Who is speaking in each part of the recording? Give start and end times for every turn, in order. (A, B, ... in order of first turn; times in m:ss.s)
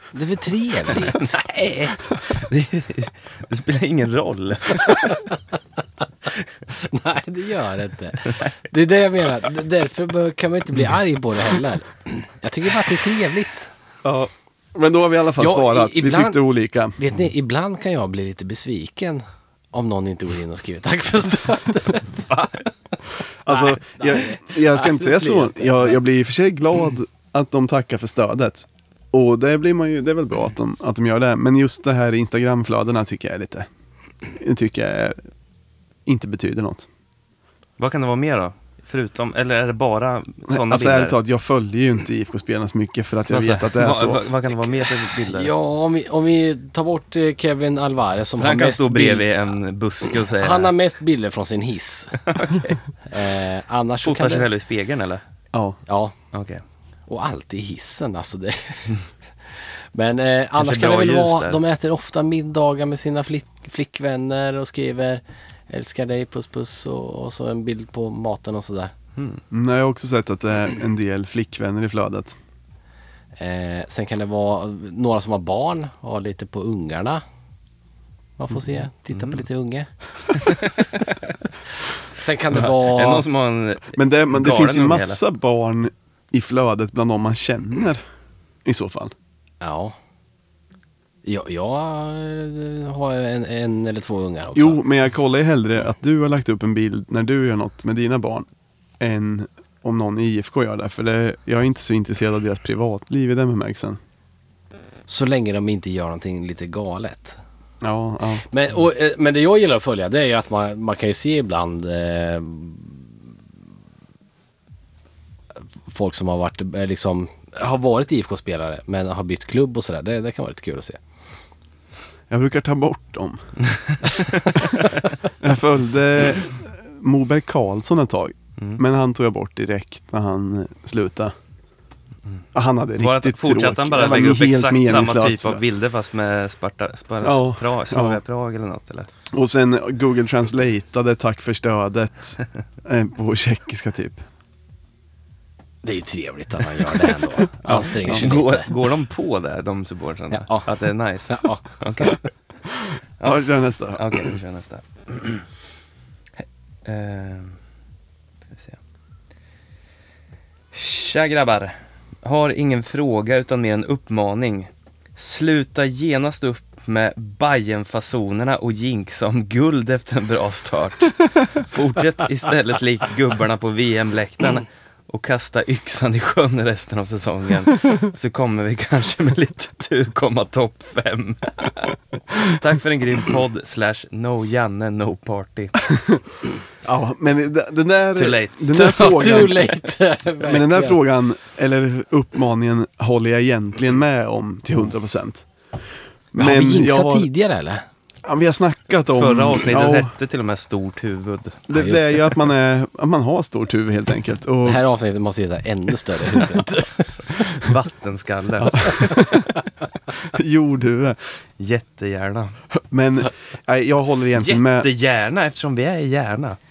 0:00.1-0:01.3 A
0:01.0-0:05.2 B
0:06.7-0:13.7 A
0:14.0-0:17.0 C
0:15.4-0:16.4 A
0:17.0-0:22.2 A
0:23.4-0:33.7 C
0:23.5-0:26.0 A
0:34.3-0:35.2 C
0:36.0-0:36.9 C
0:37.8-0:41.2 B
0:40.5-0:44.2 C
0:43.3-0:45.5 B
0:45.2-0:49.5 A
0:48.4-0:50.7 B
0:50.3-0:52.2 A
0:52.2-0:52.8 B
0:53.1-0:54.5 A
0:54.0-0:55.2 B
0:55.5-0:55.8 C
0:55.9-0:56.1 A
0:56.3-0:56.6 B
0:57.1-0:59.0 A
0:59.9-1:08.9 A
1:00.6-1:01.6 B
1:09.2-1:09.4 B
1:09.5-1:12.4 C
1:13.4-1:17.2 A
1:18.4-1:19.9 A
1:19.1-1:19.4 B
1:20.4-1:21.1 B
1:22.1-1:23.2 A
1:22.5-1:25.2 B
1:24.0-1:28.0 C
1:28.6-1:29.1 C
1:29.6-1:29.9 A
1:31.2-1:34.8 A
1:34.6-1:38.5 C
1:39.0-1:44.0 C
1:45.1-1:47.4 A
1:47.8-1:48.4 C
1:48.5-1:53.0 A
1:55.9-2:01.0 A
2:02.3-2:03.5 C
2:03.7-2:04.5 B
2:04.6-2:11.3 C
2:12.5-2:15.6 C
2:13.0-2:19.1 B
2:17.2-2:18.2 C
2:19.3-2:24.2 C
2:25.8-2:28.7 A
2:27.6-2:28.3 C
2:27.8-2:32.2 B
2:30.3-2:30.7 A
2:31.3-2:32.2 A
2:33.2-2:35.4 B
2:33.2-2:34.1 C
2:36.8-2:37.6 B
2:38.5-2:38.8 B
2:40.7-3:05.8 B
3:06.8-3:09.6 C
3:08.2-3:09.7 B
3:08.7-3:11.0 A
3:10.4-3:15.5 C
3:16.3-3:17.3 C
3:16.4-3:17.9 A
3:18.2-3:20.1 C
3:19.1-3:21.7 B
3:21.7-3:24.8 C
3:21.7-3:22.4 A
3:24.6-3:27.1 A
3:27.3-3:29.2 B
3:28.6-3:29.6 C
3:30.2-3:31.2 C
3:31.6-3:32.6 B
3:32.7-3:34.9 C
3:34.4-3:36.6 B